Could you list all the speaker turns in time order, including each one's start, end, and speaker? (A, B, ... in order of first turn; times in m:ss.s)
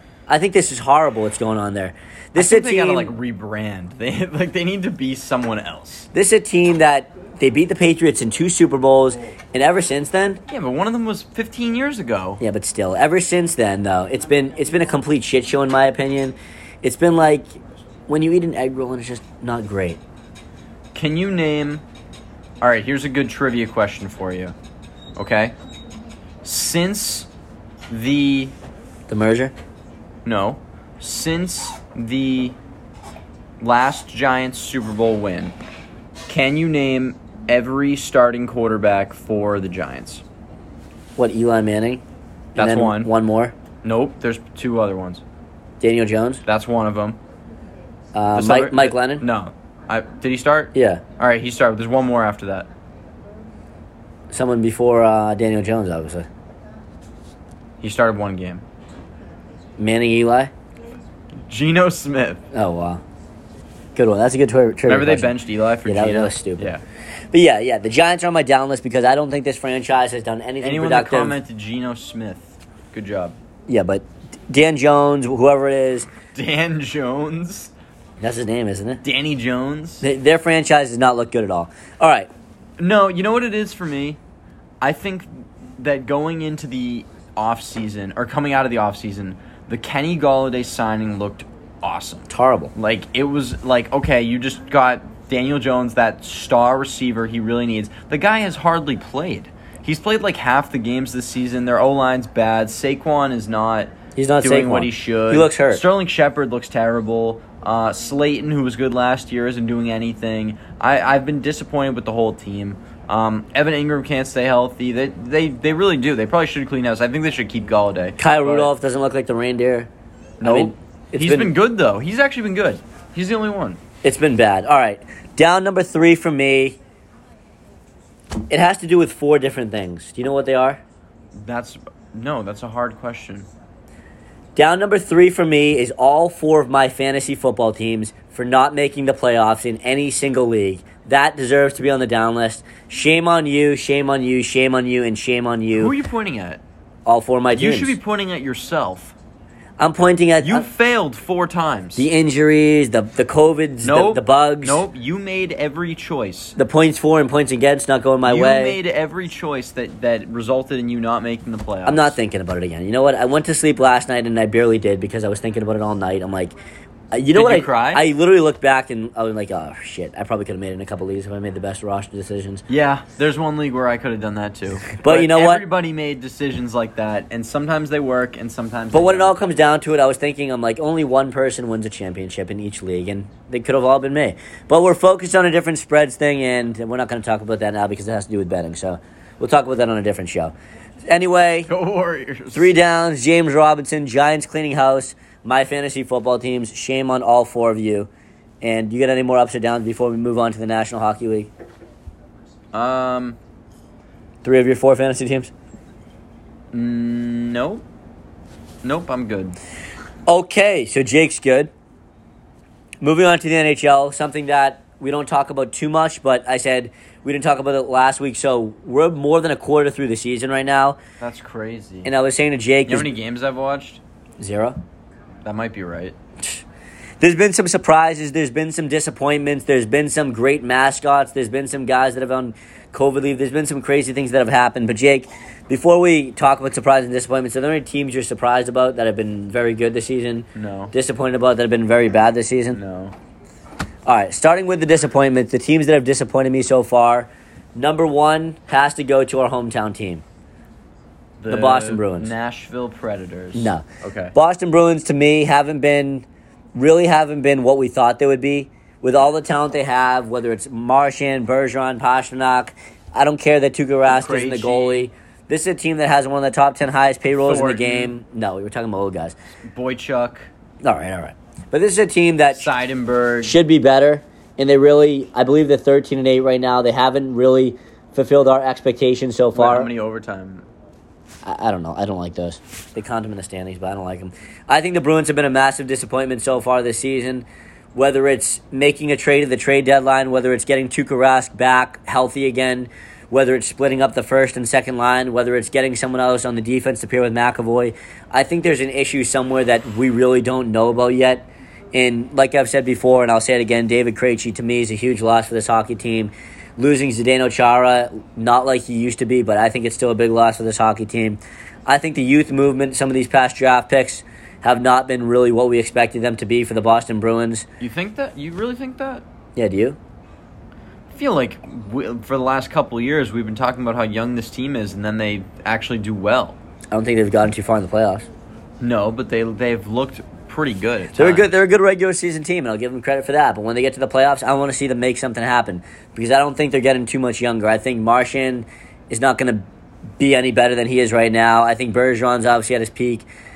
0:00.3-0:03.1 A
0:02.3-0:06.1 B
0:06.1-0:10.4 A
0:10.5-0:12.4 B
0:12.4-0:20.0 A
0:20.9-0:21.8 B
0:22.6-0:24.5 B
0:25.2-0:25.5 B
0:26.4-0:27.3 B
0:27.9-0:28.5 B
0:29.1-0:29.5 A
0:30.2-0:32.6 B
0:33.6-0:35.5 B
0:36.3-0:40.2 B
0:41.2-0:42.0 A
0:42.5-0:43.5 A
0:42.6-0:43.1 B
0:43.8-0:45.2 B
0:45.8-0:46.4 A
0:46.4-0:47.2 B
0:48.1-0:49.2 A
0:48.3-0:52.7 B
0:50.7-0:51.0 A
0:54.3-0:56.3 A
0:57.8-0:58.6 B
0:59.8-1:00.5 A
1:01.5-1:02.4 B
1:02.5-1:03.0 A
1:03.9-1:06.7 A
1:04.8-1:06.8 B
1:07.3-1:11.4 A
1:10.6-1:13.4 B
1:13.7-1:16.1 A
1:16.3-1:17.7 B
1:18.2-1:19.0 A
1:19.0-1:20.0 B
1:20.0-1:22.3 A
1:22.8-1:24.2 B
1:24.8-1:58.7 B
1:32.3-1:32.7 A
1:44.2-1:45.8 A
1:58.2-1:59.9 A
2:00.4-2:03.8 B
2:00.4-2:01.5 A
2:04.0-2:06.8 A
2:08.5-2:10.8 A
2:11.4-2:13.5 B
2:14.6-2:25.9 A
2:25.7-2:26.6 B
2:27.0-2:28.0 A
2:27.5-2:29.2 B
2:29.8-2:30.6 A
2:30.4-2:32.1 B
2:32.0-2:34.8 A
2:33.8-2:36.6 B
2:36.6-2:38.8 A
2:38.2-2:42.2 B
2:41.8-2:46.5 A
2:47.1-2:52.6 A
2:47.3-2:48.0 B
2:52.7-2:59.4 B
2:55.0-2:55.6 A
2:58.9-3:10.5 A
3:11.0-3:11.7 A
3:11.7-3:12.7 B
3:12.5-3:18.1 A
3:18.6-3:21.5 A
3:22.7-3:23.4 B
3:24.4-3:25.5 A
3:26.7-3:27.8 B
3:28.8-3:29.6 B
3:30.3-3:31.7 A
3:33.0-3:41.0 A
3:41.2-3:42.1 B
3:42.0-3:43.1 A
3:42.9-3:44.0 B
3:44.4-3:44.8 A
3:45.4-3:46.2 B
3:47.2-4:02.8 A
4:00.5-4:00.9 B
4:02.7-4:03.1 B
4:04.0-4:10.2 A
4:11.4-4:14.3 B
4:11.5-4:12.3 A
4:13.5-4:29.4 A
4:24.1-4:25.1 B
4:27.3-4:28.1 B
4:29.7-4:30.5 B
4:30.8-4:32.7 A
4:32.5-4:33.6 B
4:33.4-4:39.9 A
4:39.5-4:40.6 B
4:41.4-5:17.7 A
5:17.8-5:19.2 B
5:19.6-5:20.0 A
5:21.1-5:26.6 B
5:26.9-5:28.3 A
5:28.8-5:31.5 B
5:31.2-5:39.6 A
5:40.2-5:43.3 A